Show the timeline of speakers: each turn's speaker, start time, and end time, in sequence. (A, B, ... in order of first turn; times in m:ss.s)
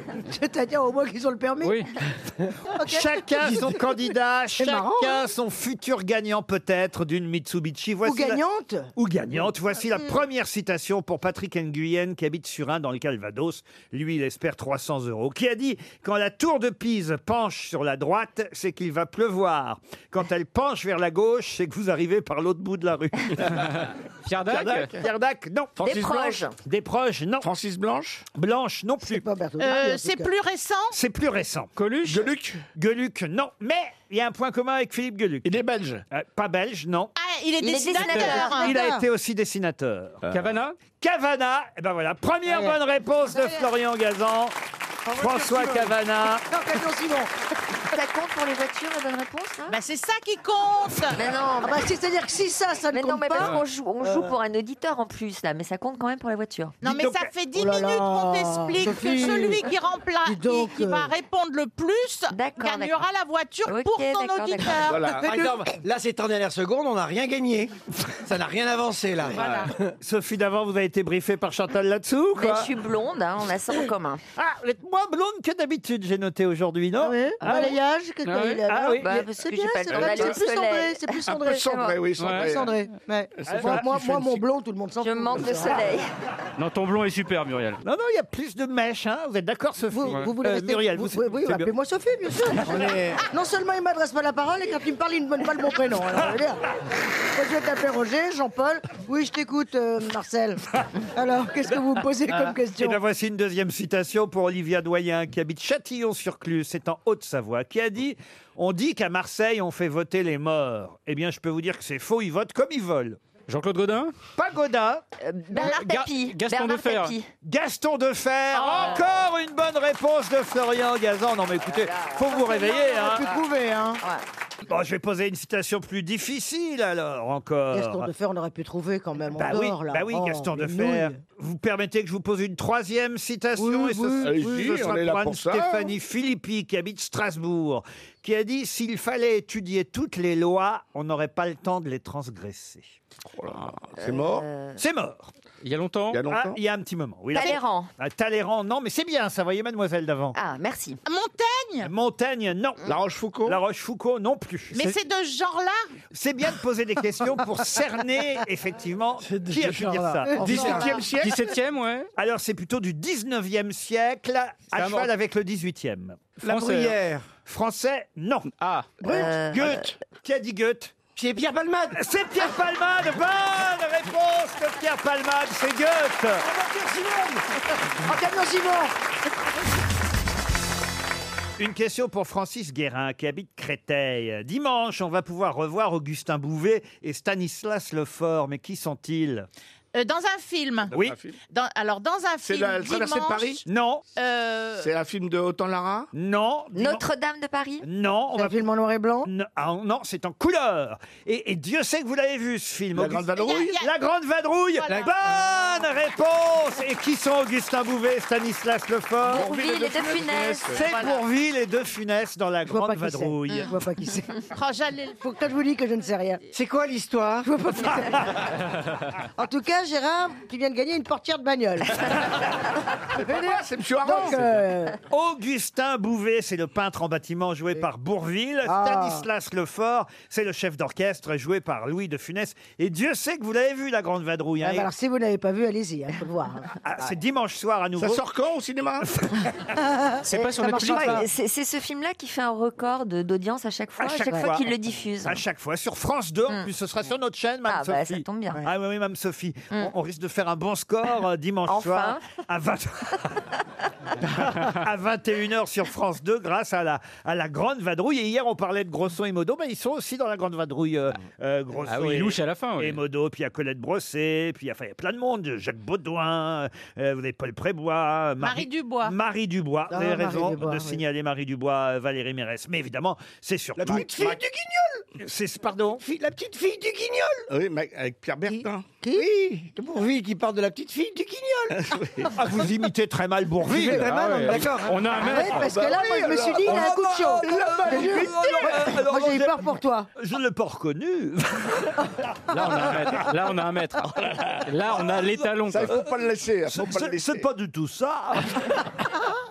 0:00.3-0:01.8 A
0:01.6-0:01.9 B
0:02.7-0:03.0 A
0:02.8-0:08.4 C
0:04.6-0:05.2 A
0:08.0-0:08.9 A
0:09.0-0:23.6 C
0:24.2-0:24.9 B
0:24.5-0:25.0 D
0:24.8-0:25.8 C
0:25.8-0:26.5 D
0:25.8-0:26.6 E
0:26.6-0:27.5 C
0:27.4-0:28.2 D
0:28.3-0:29.2 C
0:29.0-0:30.3 A
0:29.6-0:31.0 F
0:30.9-0:31.7 C
0:31.8-0:32.3 B
0:32.0-0:32.6 D
0:32.7-0:37.1 C
0:35.4-0:36.0 D
0:37.2-0:38.7 F
0:37.6-0:38.6 E
0:38.0-0:38.4 B
0:38.1-0:39.0 A
0:38.5-0:40.2 C
0:40.2-0:40.5 D
0:40.3-0:40.8 B
0:40.9-0:44.5 C
0:45.1-0:46.5 C
0:45.2-0:45.9 D
0:46.5-0:47.3 A
0:47.8-0:49.8 E
0:49.7-0:51.2 F
0:51.1-0:51.9 E
0:51.6-0:54.3 A
0:52.9-0:56.7 E
0:56.8-1:05.1 F
0:56.8-0:57.3 C
0:57.5-0:59.6 A
1:00.2-1:01.1 A
1:02.3-1:02.9 E
1:03.6-1:04.9 E
1:04.8-1:05.5 D
1:05.1-1:09.9 G
1:09.3-1:09.7 F
1:10.0-1:12.7 C
1:12.4-1:14.2 E
1:14.3-1:17.8 C
1:17.0-1:21.7 A
1:18.2-1:18.6 B
1:18.7-1:19.0 C
1:19.0-1:22.1 E
1:19.9-1:20.5 D
1:21.3-1:22.7 D
1:22.2-1:22.5 B
1:22.2-1:25.9 A
1:23.4-1:24.0 D
1:23.5-1:24.4 C
1:25.0-1:26.1 E
1:26.6-1:27.8 B
1:27.8-1:31.7 C
1:29.9-1:36.6 A
1:32.6-1:33.2 G
1:37.2-1:40.6 A
1:41.1-1:43.0 A
1:42.8-1:53.2 C
1:53.5-1:54.1 B
1:54.4-1:55.0 C
1:55.2-1:57.3 E
1:55.6-1:57.1 B
1:57.4-2:03.4 C
1:58.6-1:59.0 E
2:01.6-2:02.4 E
2:02.3-2:04.0 A
2:04.6-2:08.1 C
2:07.7-2:11.2 A
2:09.3-2:23.0 C
2:13.6-2:14.8 A
2:14.2-2:15.9 D
2:23.2-2:24.5 D
2:24.0-2:24.8 E
2:24.8-2:25.3 C
2:25.6-2:26.2 B
2:26.1-2:26.6 D
2:26.3-2:30.4 C
2:27.3-2:27.9 E
2:30.3-2:31.0 E
2:31.0-2:31.9 F
2:31.8-2:34.9 C
2:32.8-2:33.6 D
2:34.7-2:35.8 F
2:36.1-2:40.9 C
2:39.2-2:40.9 G
2:40.2-2:40.6 A
2:40.4-2:41.5 D
2:40.4-2:42.1 B
2:42.2-2:46.2 C
2:44.7-2:45.1 B
2:46.4-2:47.3 G
2:46.4-2:47.0 B
2:47.4-2:48.5 C
2:48.5-2:48.9 B
2:49.0-2:50.0 G
2:49.1-2:49.8 E
2:50.2-2:50.9 C
2:51.2-2:52.0 G
2:51.9-2:56.4 C
2:56.5-2:57.4 G
2:57.9-2:58.9 A
3:01.6-3:09.5 C
3:09.9-3:10.9 F
3:10.9-3:11.4 D
3:10.9-3:11.2 C
3:11.5-3:13.6 F
3:12.4-3:13.6 D
3:13.6-3:14.0 C
3:14.2-3:14.9 F
3:14.8-3:16.1 D
3:16.1-3:17.1 C
3:16.7-3:17.9 E
3:17.8-3:18.6 C
3:18.3-3:19.3 A
3:19.2-3:29.5 C
3:22.9-3:23.8 D
3:23.4-3:23.9 F
3:24.8-3:25.1 F
3:29.2-3:30.8 E
3:29.3-3:30.9 D
3:30.7-3:33.7 C
3:30.8-3:31.2 F
3:32.7-3:34.4 A
3:34.5-3:35.2 F
3:35.2-3:36.4 A
3:36.5-3:37.8 G
3:37.4-3:38.3 A
3:39.4-3:42.2 A
3:43.2-3:45.0 A
3:43.2-3:44.4 D
3:45.1-3:54.9 C
3:48.6-3:49.2 A
3:54.6-3:56.7 A
3:56.8-3:58.2 C
3:58.0-3:59.1 D
3:59.0-3:59.5 C
3:59.8-4:01.2 A
4:00.2-4:01.2 B
4:00.8-4:05.4 E
4:04.0-4:13.4 C
4:04.0-4:04.5 A
4:07.6-4:08.6 E
4:11.7-4:12.2 E
4:14.2-4:34.4 C
4:21.9-4:23.0 B
4:28.4-4:29.2 F
4:29.9-4:31.0 A
4:33.8-4:35.0 G
4:35.2-4:36.0 C
4:36.0-4:37.4 G
4:37.5-4:38.9 D
4:38.5-4:39.2 A
4:39.1-4:41.8 G
4:41.7-4:42.4 D
4:42.3-4:44.2 C
4:43.6-4:45.1 G
4:44.0-4:45.7 B
4:45.1-4:50.1 A
4:45.5-4:48.8 D
4:46.6-4:52.0 C
4:52.5-4:56.1 B
4:55.6-4:57.4 D
4:56.7-4:58.8 C